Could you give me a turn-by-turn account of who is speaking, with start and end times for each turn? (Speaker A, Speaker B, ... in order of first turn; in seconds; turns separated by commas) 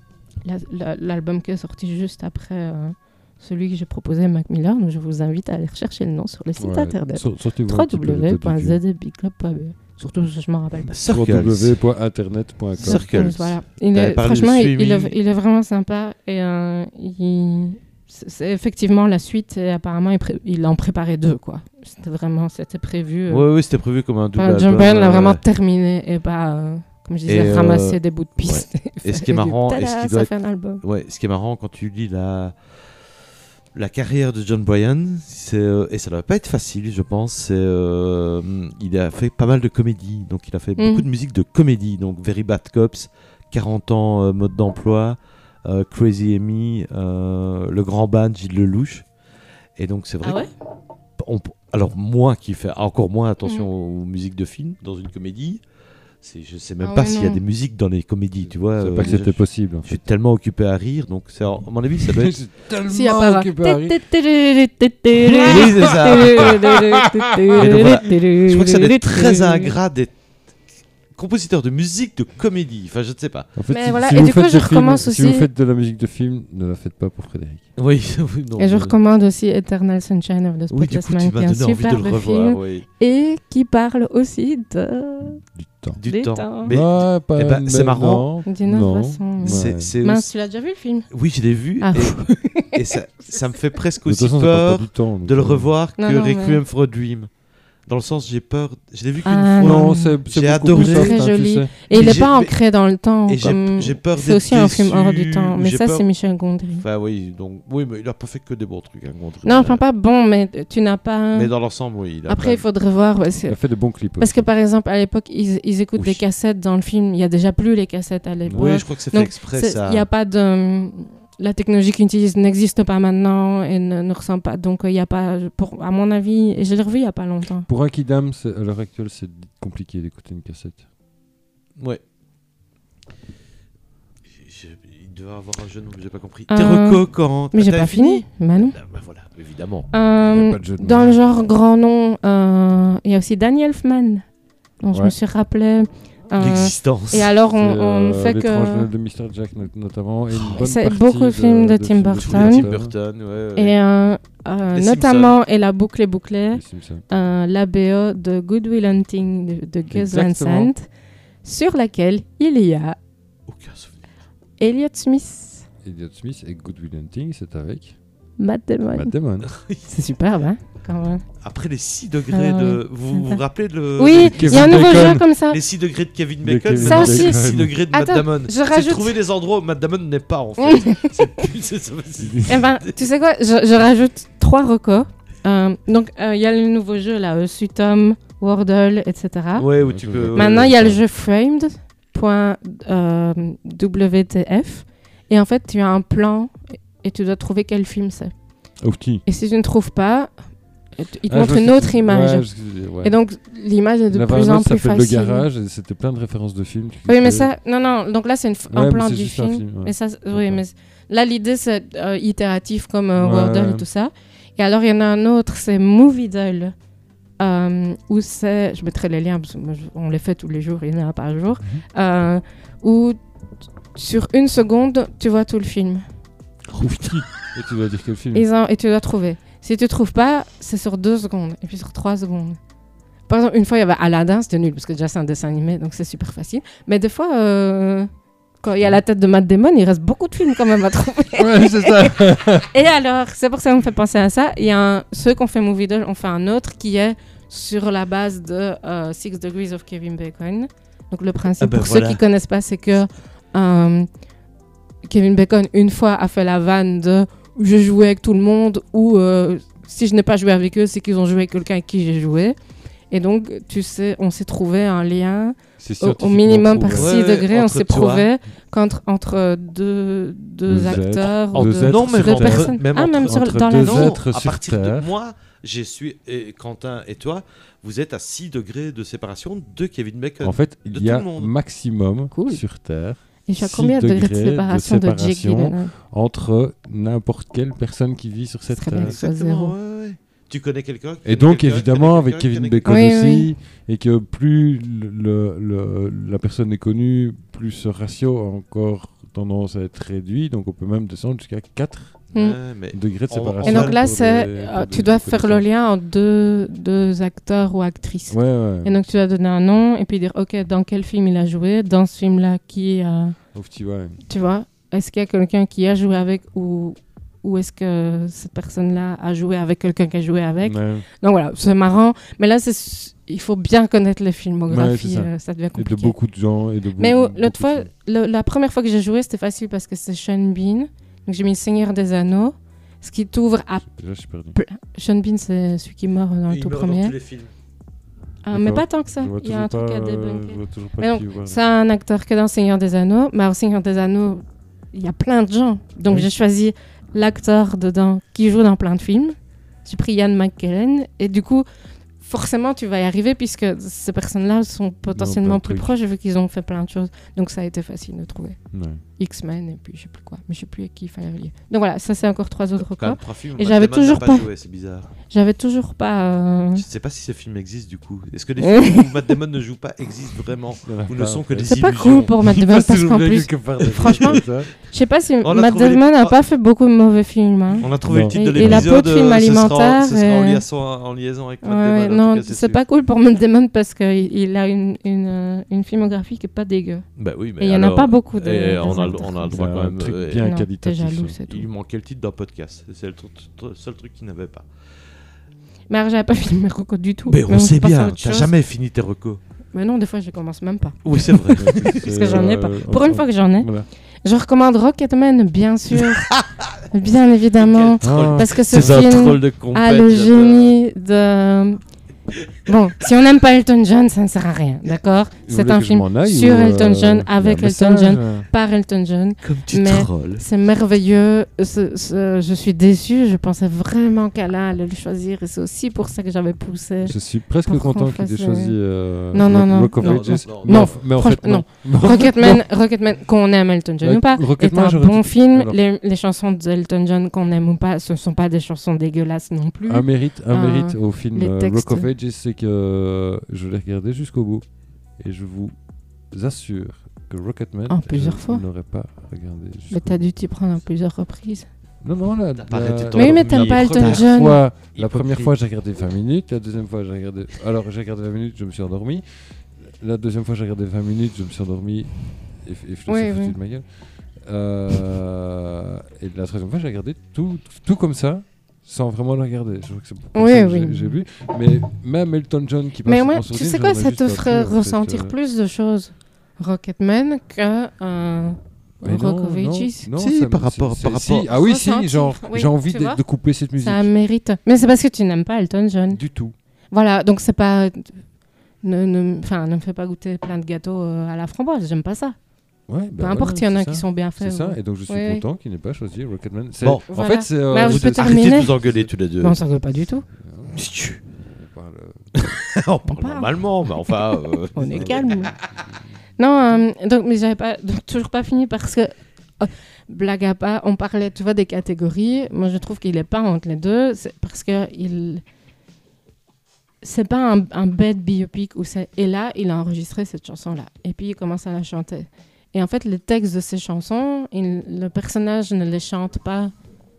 Speaker A: 0.4-10.9, Speaker B: 6.6-8.8, Speaker C: 10.9-11.8, Speaker B: 11.1-13.1, Speaker C: 12.8-15.1, Speaker A: 12.8-23.5, Speaker C: 23.3-25.4, Speaker A: 24.4-30.8, Speaker C: 27.2-32.5, Speaker C: 33.7-49.0, Speaker A: 40.8-41.0, Speaker C: 49.8-50.5, Speaker A: 50.2-50.5, Speaker C: 51.2-55.6, Speaker C: 56.2-62.3, Speaker A: 56.8-57.4, Speaker B: 58.4-59.9, Speaker B: 62.0-64.0, Speaker A: 62.9-69.7, Speaker B: 65.1-67.9, Speaker C: 65.4-66.6, Speaker C: 67.5-70.1, Speaker C: 71.1-73.5, Speaker B: 73.5-77.7, Speaker A: 73.7-75.5, Speaker C: 77.8-78.9, Speaker A: 78.6-85.4, Speaker C: 80.7-82.8, Speaker B: 85.2-86.0, Speaker C: 86.0-88.3, Speaker A: 86.0-86.7, Speaker B: 86.6-89.9, Speaker A: 88.5-91.1, Speaker C: 89.4-90.3, Speaker C: 91.1-97.3, Speaker A: 91.8-93.4, Speaker B: 94.0-95.7, Speaker A: 96.0-96.6, Speaker C: 97.9-101.2, Speaker A: 99.2-100.2, Speaker B: 99.6-101.7, Speaker A: 100.7-106.8, Speaker C: 101.9-102.5, Speaker C: 103.3-106.0, Speaker C: 106.8-109.8, Speaker A: 109.4-111.5, Speaker C: 111.3-112.6, Speaker A: 112.3-113.6, Speaker B: 113.5-114.4, Speaker A: 114.2-127.7, Speaker B: 118.5-118.8, Speaker C: 118.5-120.1, Speaker B: 127.7-130.8, Speaker C: 134.3-139.9, Speaker A: 136.5-138.8, Speaker A: 139.9-144.2, Speaker B: 140.2-141.2, Speaker A: 144.8-148.9, Speaker C: 146.4-147.3, Speaker B: 147.5-152.9, Speaker C: 150.3-150.6, Speaker A: 150.6-152.7, Speaker C: 152.2-153.7, Speaker A: 153.6-160.9, Speaker C: 154.7-155.4, Speaker B: 156.5-157.1, Speaker B: 159.9-160.7, Speaker A: 161.4-163.0, Speaker C: 163.5-164.0, Speaker A: 164.6-165.7, Speaker B: 165.8-168.0, Speaker A: 168.4-169.1, Speaker B: 168.9-169.5, Speaker C: 169.4-169.8, Speaker A: 169.8-171.2, Speaker C: 171.4-183.1, Speaker A: 172.3-173.4, Speaker A: 174.0-175.6, Speaker B: 174.2-175.3, Speaker B: 176.4-177.8, Speaker A: 176.8-179.2, Speaker A: 180.6-181.4, Speaker B: 182.2-182.6, Speaker A: 182.4-189.7, Speaker C: 189.6-191.0, Speaker B: 189.8-191.0, Speaker A: 190.3-198.3, Speaker B: 198.8-199.2, Speaker A: 199.2-200.3, Speaker A: 200.9-205.4, Speaker B: 201.3-203.1, Speaker B: 204.1-207.5, Speaker A: 207.1-216.7, Speaker B: 208.7-210.6, Speaker B: 213.2-213.8, Speaker A: 217.4-223.2, Speaker A: 223.9-226.1, Speaker C: 226.7-227.2, Speaker B: 226.8-228.4, Speaker A: 228.3-232.6, Speaker A: 233.3-238.1, Speaker A: 238.6-254.1, Speaker B: 241.3-242.7, Speaker C: 251.6-252.2, Speaker A: 255.0-262.6, Speaker A: 263.1-274.2, Speaker B: 265.8-267.1, Speaker C: 266.9-268.3, Speaker B: 270.7-275.1, Speaker C: 270.9-281.5, Speaker B: 280.4-289.1, Speaker A: 282.3-282.6, Speaker A: 283.5-285.9, Speaker A: 288.7-289.7, Speaker C: 288.9-293.2, Speaker B: 291.2-302.3, Speaker A: 292.9-293.5, Speaker C: 302.3-304.0, Speaker B: 302.9-305.6, Speaker A: 303.6-313.4, Speaker B: 308.3-308.9, Speaker B: 313.5-314.2, Speaker A: 314.2-326.1, Speaker B: 320.6-321.1, Speaker B: 324.7-327.9, Speaker A: 327.0-333.9, Speaker B: 333.9-334.6, Speaker A: 334.5-337.1, Speaker C: 336.5-337.5, Speaker A: 338.4-351.6, Speaker B: 338.5-341.6, Speaker A: 352.2-364.5, Speaker B: 355.1-355.9, Speaker B: 358.7-359.0, Speaker C: 362.9-365.1, Speaker A: 365.3-366.8, Speaker C: 366.7-372.3, Speaker A: 368.6-369.1, Speaker B: 370.8-374.7, Speaker A: 371.6-380.6, Speaker C: 375.4-376.4, Speaker C: 377.8-382.8, Speaker B: 378.0-378.9, Speaker A: 381.6-387.1, Speaker C: 387.2-390.5, Speaker A: 387.6-389.6, Speaker B: 389.5-391.4, Speaker A: 390.4-391.7, Speaker C: 391.5-394.7, Speaker A: 395.9-398.5, Speaker C: 397.3-399.4, Speaker A: 399.7-403.7, Speaker C: 401.0-402.5, Speaker B: 401.6-403.9, Speaker A: 404.2-406.3, Speaker C: 406.0-406.8, Speaker A: 406.9-411.8, Speaker C: 407.5-410.7, Speaker B: 408.0-409.3, Speaker A: 412.6-428.8, Speaker B: 415.4-418.5, Speaker C: 419.4-420.4, Speaker B: 427.0-432.6, Speaker A: 429.3-442.1, Speaker C: 429.4-431.1, Speaker B: 434.0-435.8, Speaker B: 439.9-444.6, Speaker B: 445.2-445.8, Speaker B: 446.3-450.2, Speaker A: 447.9-448.6, Speaker A: 449.9-451.7, Speaker B: 452.0-475.3, Speaker C: 452.6-455.5, Speaker A: 453.1-454.6, Speaker A: 463.1-463.6, Speaker A: 470.3-471.2, Speaker A: 473.1-480.1, Speaker B: 479.0-484.1, Speaker C: 480.2-481.5, Speaker A: 481.5-486.2, Speaker B: 486.1-486.5, Speaker A: 486.9-488.2, Speaker A: 488.8-492.4, Speaker B: 492.9-499.1, Speaker A: 493.2-495.4, Speaker A: 497.1-498.7, Speaker C: 497.7-499.6, Speaker A: 499.4-500.3, Speaker B: 500.3-500.8, Speaker C: 500.7-501.2, Speaker B: 501.4-502.4, Speaker C: 502.4-505.6, Speaker A: 503.1-504.2, Speaker A: 504.7-505.5, Speaker B: 504.9-506.2, Speaker A: 506.4-515.4, Speaker A: 517.0-526.7